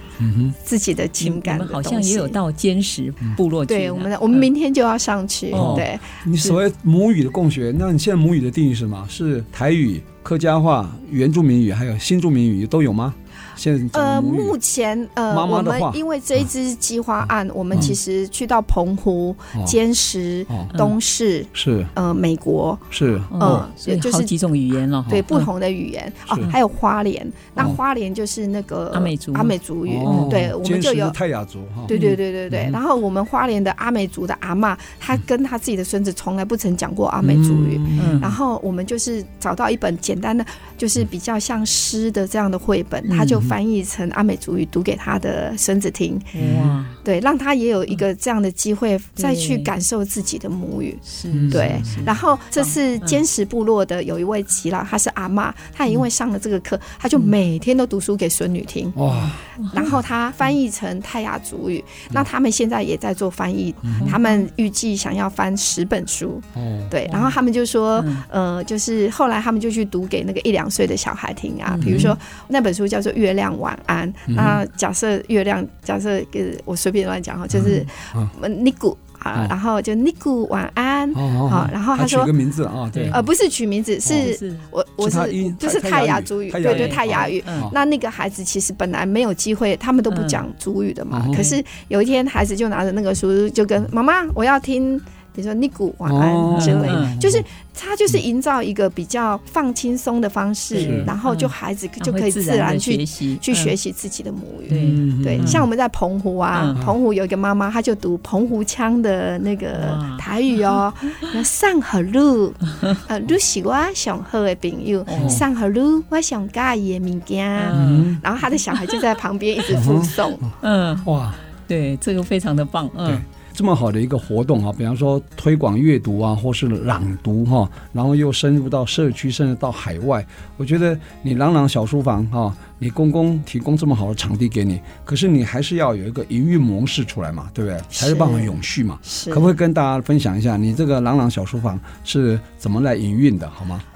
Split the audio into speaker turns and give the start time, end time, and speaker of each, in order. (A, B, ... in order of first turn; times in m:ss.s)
0:00.2-0:00.5 A
0:00.6-0:02.4 B
0:01.2-0:04.5 C
0:03.7-0:06.2 B
0:05.5-0:05.9 C
0:05.5-0:14.6 A
0:13.9-0:24.3 B
0:15.3-0:16.0 A
0:21.5-0:21.9 A
0:22.9-0:23.7 A
0:23.3-0:25.5 C
0:25.0-0:31.2 B
0:28.9-0:30.4 C
0:29.9-0:31.9 A
0:31.9-0:46.3 B
0:31.9-0:32.2 C
0:32.5-0:32.8 A
0:37.2-0:38.2 A
0:38.0-0:38.3 C
0:43.1-0:43.4 C
0:46.3-0:47.0 C
0:46.4-0:46.8 A
0:47.0-0:59.0 B
0:49.2-0:49.7 C
0:51.1-0:53.2 C
0:51.3-0:52.1 A
0:59.0-0:59.4 A
0:59.1-0:59.9 C
0:59.7-1:22.3 B
1:03.8-1:04.2 A
1:06.5-1:06.9 A
1:07.0-1:07.4 C
1:08.0-1:08.2 C
1:11.7-1:12.1 C
1:11.8-1:12.1 A
1:14.3-1:14.6 A
1:17.5-1:18.3 A
1:21.1-1:23.2 A
1:22.9-1:23.2 C
1:23.1-2:00.4 B
1:24.0-1:24.3 A
1:24.1-1:24.6 C
1:25.0-1:27.7 A
1:26.6-1:27.7 C
1:30.1-1:30.4 C
1:31.1-1:31.4 A
1:31.3-1:31.6 C
1:36.0-1:37.4 A
1:36.5-1:37.1 C
1:40.7-1:43.7 C
1:40.7-1:41.1 A
1:44.7-1:45.6 A
1:44.7-1:45.6 C
1:46.5-1:46.8 C
1:49.7-1:50.2 C
1:55.1-1:55.4 C
1:55.1-1:55.4 A
1:57.6-1:58.1 C
1:57.7-1:58.2 A
1:59.7-2:00.5 A
2:00.6-2:01.1 C
2:01.0-2:01.4 A
2:01.7-2:03.2 C
2:03.0-2:23.8 A
2:17.9-2:19.5 B